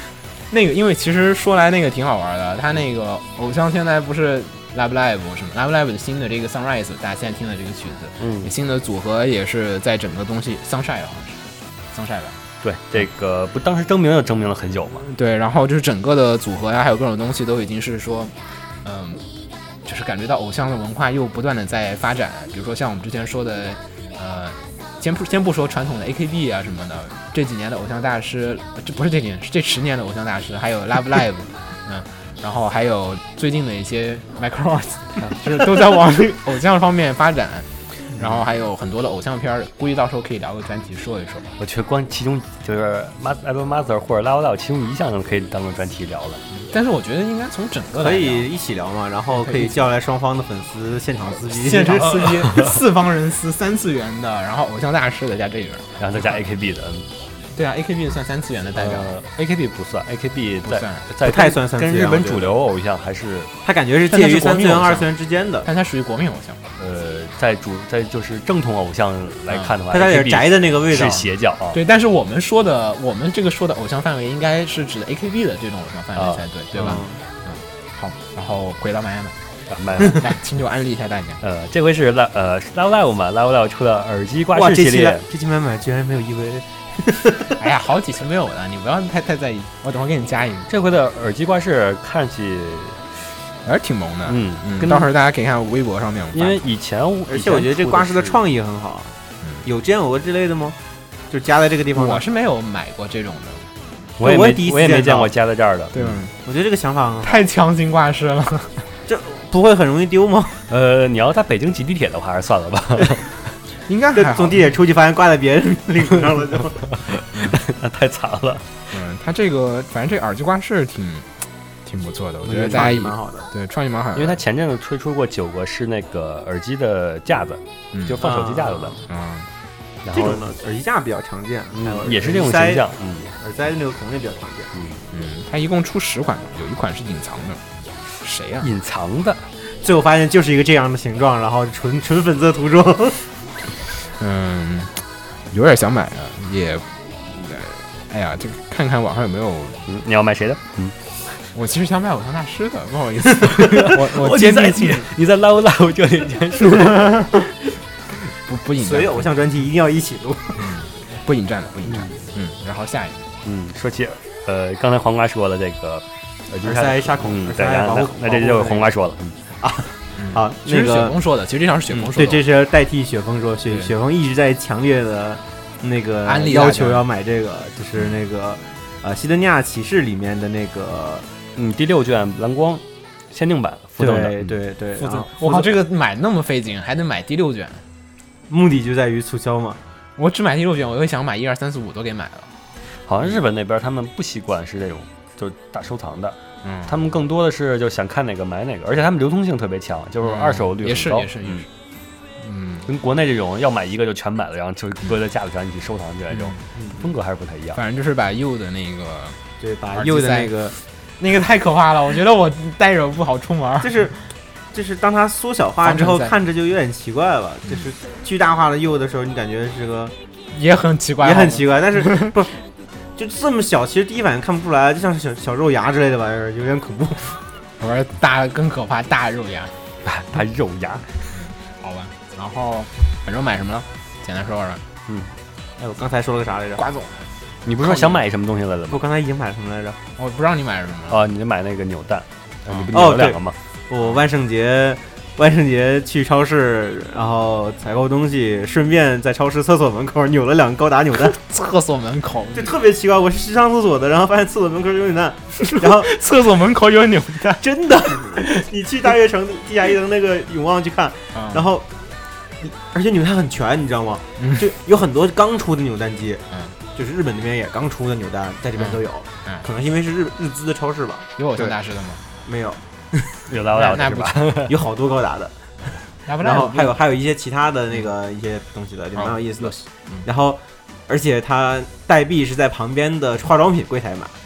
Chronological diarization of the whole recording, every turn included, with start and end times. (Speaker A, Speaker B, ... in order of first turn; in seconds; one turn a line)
Speaker A: 0.5-12.4
Speaker B: 8.2-8.5
Speaker B: 12.6-15.1
Speaker A: 15.1-19.2
Speaker A: 19.9-41.5
Speaker B: 41.6-46.5
Speaker A: 46.7-48.5
Speaker C: 48.0-52.4
Speaker A: 49.3-49.8
Speaker A: 51.5-56.4
Speaker B: 56.0-57.1
Speaker A: 57.5-59.1
Speaker B: 58.8-63.5
Speaker A: 60.6-61.1
Speaker C: 61.2-62.5
Speaker C: 63.6-65.7
Speaker A: 64.1-65.1
Speaker A: 65.7-66.6
Speaker B: 66.8-71.8
Speaker C: 69.9-71.3
Speaker A: 71.7-79.4
Speaker B: 76.2-76.5
Speaker C: 76.8-77.2
Speaker B: 79.7-80.3
Speaker A: 80.0-81.4
Speaker B: 81.4-85.3
Speaker C: 84.5-87.6
Speaker A: 87.6-90.7
Speaker B: 90.7-93.1
Speaker A: 93.6-96.7
Speaker B: 94.3-95.1
Speaker B: 96.3-98.4
Speaker C: 97.3-99.1
Speaker A: 99.4-99.7
Speaker C: 99.7-100.8
Speaker C: 101.3-102.2
Speaker A: 102.0-103.7
Speaker B: 104.2-106.2
Speaker C: 104.2-105.3
Speaker A: 105.9-106.3
Speaker C: 106.4-107.5
Speaker A: 107.2-108.9
Speaker C: 109.1-110.7
Speaker B: 110.7-113.4
Speaker A: 113.9-114.8
Speaker C: 114.2-116.9
Speaker A: 117.3-117.6
Speaker B: 117.3-118.7
Speaker A: 118.9-121.3
Speaker A: 121.8-124.4
Speaker C: 122.4-123.5
Speaker B: 124.2-129.0
Speaker A: 127.9-128.3
Speaker C: 128.2-128.9
Speaker A: 129.0-129.5
Speaker B: 130.0-130.4
Speaker C: 130.1-134.7
Speaker B: 131.7-133.3
Speaker B: 134.7-135.0
Speaker A: 135.1-137.6
Speaker A: 138.2-138.7
Speaker B: 138.6-139.4
Speaker C: 139.8-143.3
Speaker A: 144.1-149.8
Speaker B: 149.9-151.0
Speaker A: 151.4-155.1
Speaker B: 153.5-157.2
Speaker A: 158.4-159.3
Speaker C: 158.8-160.7
Speaker A: 160.6-163.3
Speaker B: 161.9-162.1
Speaker B: 163.4-169.4
Speaker C: 166.6-168.9
Speaker C: 169.6-171.2
Speaker A: 170.2-172.4
Speaker C: 172.1-181.3
Speaker A: 176.2-177.1
Speaker B: 181.6-184.6
Speaker C: 184.0-185.7
Speaker A: 185.0-187.8
Speaker C: 188.5-189.8
Speaker A: 190.2-192.5
Speaker B: 193.1-201.7
Speaker A: 196.6-197.0
Speaker A: 200.2-201.7
Speaker A: 202.4-202.9
Speaker B: 202.9-207.8
Speaker A: 206.3-206.6
Speaker C: 206.8-207.1
Speaker A: 207.8-209.4
Speaker C: 209.6-210.8
Speaker A: 209.9-214.1
Speaker C: 213.8-220.2
Speaker A: 215.8-216.3
Speaker A: 220.5-222.3
Speaker C: 221.2-222.6
Speaker C: 223.2-227.4
Speaker A: 227.8-229.8
Speaker B: 230.1-231.3
Speaker A: 231.3-234.8
Speaker B: 235.1-235.3
Speaker C: 235.8-236.8
Speaker A: 236.8-237.3
Speaker B: 237.7-239.1
Speaker C: 238.9-240.0
Speaker A: 240.2-241.3
Speaker B: 241.1-243.6
Speaker A: 242.7-243.2
Speaker C: 242.9-251.4
Speaker A: 251.3-252.7
Speaker C: 252.5-256.1
Speaker A: 255.6-257.6
Speaker C: 257.6-261.9
Speaker A: 258.4-258.6
Speaker A: 261.3-261.7
Speaker C: 262.6-271.8
Speaker A: 264.4-264.6
Speaker A: 266.5-266.8
Speaker A: 268.8-269.7
Speaker A: 271.4-272.2
Speaker C: 272.4-273.5
Speaker B: 273.5-274.8
Speaker A: 273.7-274.6
Speaker C: 274.7-284.3
Speaker A: 276.3-277.0
Speaker A: 279.1-280.2